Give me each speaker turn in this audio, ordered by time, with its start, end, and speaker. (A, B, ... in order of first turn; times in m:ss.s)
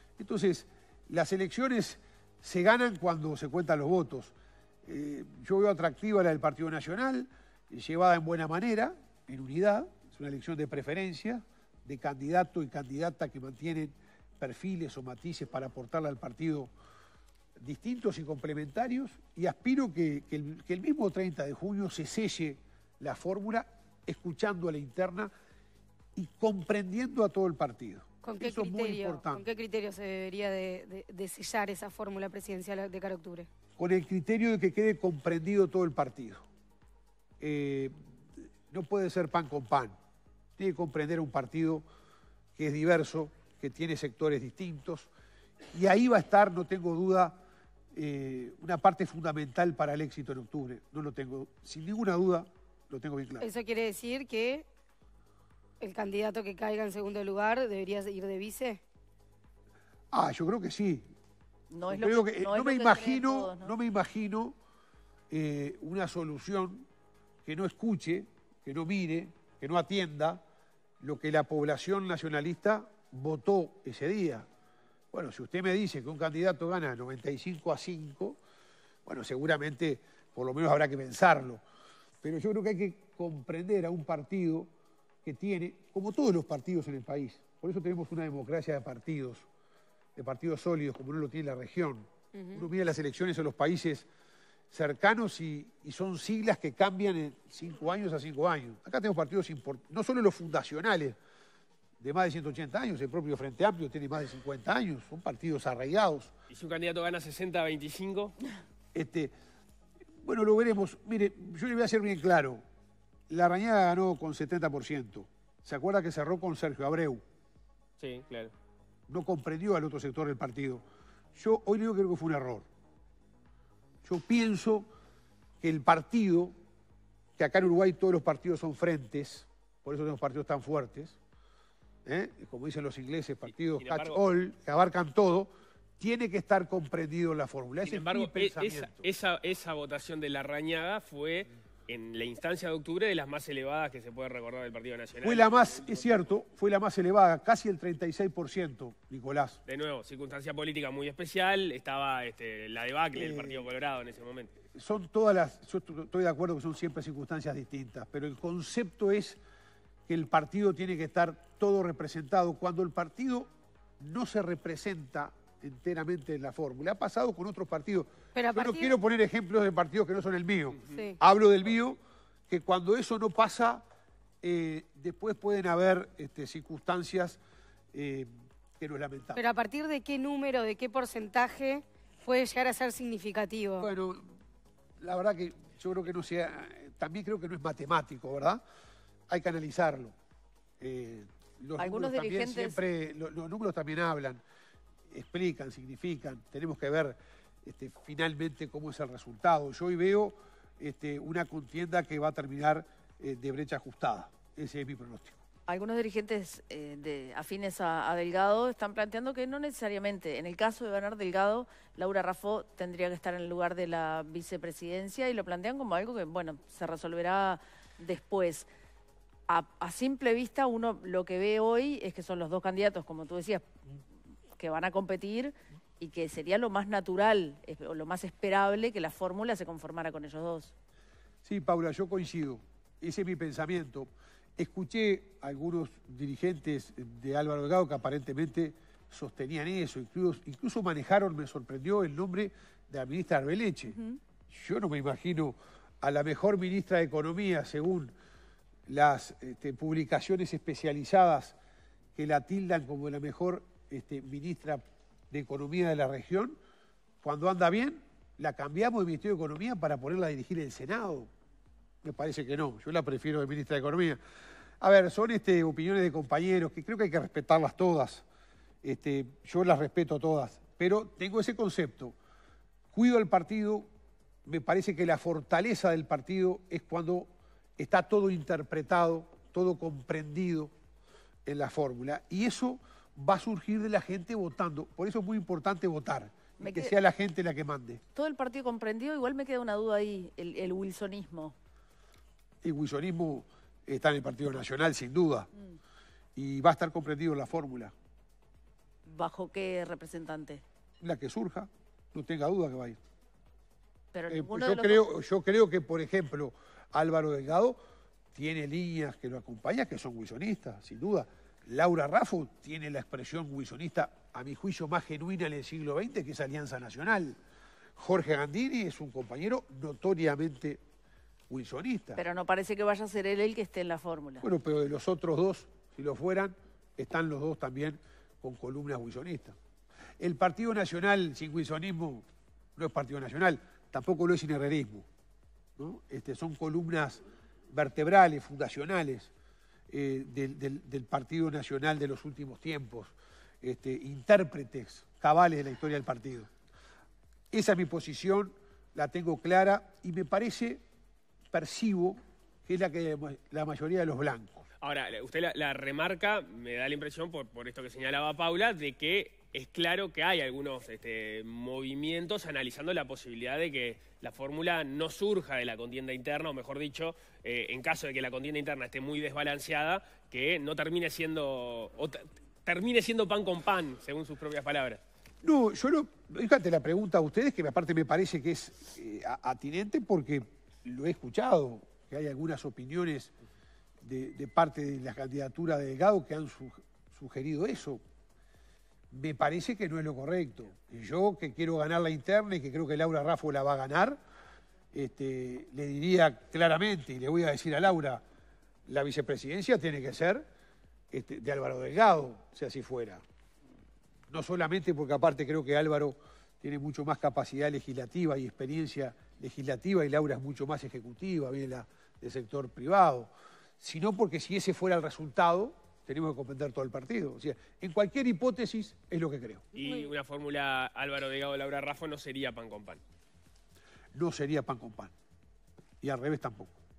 0:00.2-0:04.3 A
0:04.8-0:16.7 A
0:17.6-0:25.3 A
0:26.2-0:29.4 A
0:28.2-0:33.5 B
0:33.8-0:36.4 A
0:37.4-0:38.0 A
0:38.7-0:40.0 A
0:40.6-0:41.8 A
0:42.6-0:45.1 A
0:45.7-0:47.4 A
0:47.9-0:53.5 A
0:53.4-0:54.7 B
0:55.8-0:58.8 B
1:00.1-1:01.1 A
1:01.7-1:03.7 C
1:01.9-1:04.6 A
1:05.3-1:06.9 A
1:07.4-1:10.4 A
1:11.0-1:14.5 A
1:15.1-1:18.4 A
1:19.1-1:21.6 A
1:22.2-1:24.7 A
1:25.2-1:29.5 A
1:30.2-1:34.1 A
1:32.3-1:32.7 B
1:34.7-1:41.2 A
1:42.0-1:46.3 A
1:46.5-1:48.4 D
1:48.9-1:49.3 A
1:50.2-1:52.6 A
1:53.3-1:57.2 A
1:58.0-1:58.5 D
1:59.1-2:00.8 A
2:01.4-2:02.7 A
2:04.0-2:04.9 A
2:05.6-2:06.5 A
2:07.4-2:11.2 A
2:12.0-2:19.1 A
2:13.8-2:14.2 D
2:17.8-2:26.3 D
2:25.2-2:29.6 A
2:29.7-2:34.5 D
2:33.2-2:33.6 A
2:34.7-2:39.4 A
2:40.1-2:53.8 A
2:48.4-2:48.9 B
2:50.9-2:51.2 B
2:54.4-2:57.4 A
2:57.9-2:59.4 A
2:59.4-3:03.9 B
3:03.8-3:04.4 A
3:05.0-3:08.6 A
3:09.3-3:10.2 A
3:10.8-3:14.4 A
3:11.8-3:12.8 C
3:15.1-3:25.4 A
3:25.7-3:38.7 C
3:39.5-3:43.7 C
3:44.6-3:50.7 C
3:51.4-4:04.0 A
4:04.5-4:08.1 A
4:08.9-4:11.6 A
4:12.2-4:16.6 A
4:17.2-4:21.3 A
4:22.0-4:24.2 A
4:24.8-4:28.2 A
4:28.8-4:32.2 A
4:32.9-4:33.9 A
4:34.5-4:40.7 A
4:41.4-4:48.0 A
4:46.6-4:46.9 C
4:48.2-4:51.6 C
4:52.6-4:55.5 A
4:56.4-4:57.9 A
4:59.1-5:00.6 C
5:01.0-5:03.0 A
5:04.1-5:05.0 C
5:04.3-5:07.8 A
5:08.3-5:17.4 A
5:18.0-5:20.8 A
5:21.5-5:22.2 A
5:22.2-5:24.4 C
5:24.4-5:29.6 A
5:30.2-5:35.1 A
5:35.8-5:39.3 A
5:39.9-5:46.5 A
5:47.5-5:50.8 A
5:51.5-5:54.7 A
5:54.8-6:15.0 D
6:15.4-6:23.3 A
6:24.0-6:28.0 A
6:29.1-6:34.2 A
6:34.9-6:38.2 A
6:38.9-6:40.5 A
6:41.1-6:43.2 A
6:44.3-6:59.7 A
6:59.7-7:03.0 D
7:04.1-7:05.1 A
7:06.0-7:06.8 A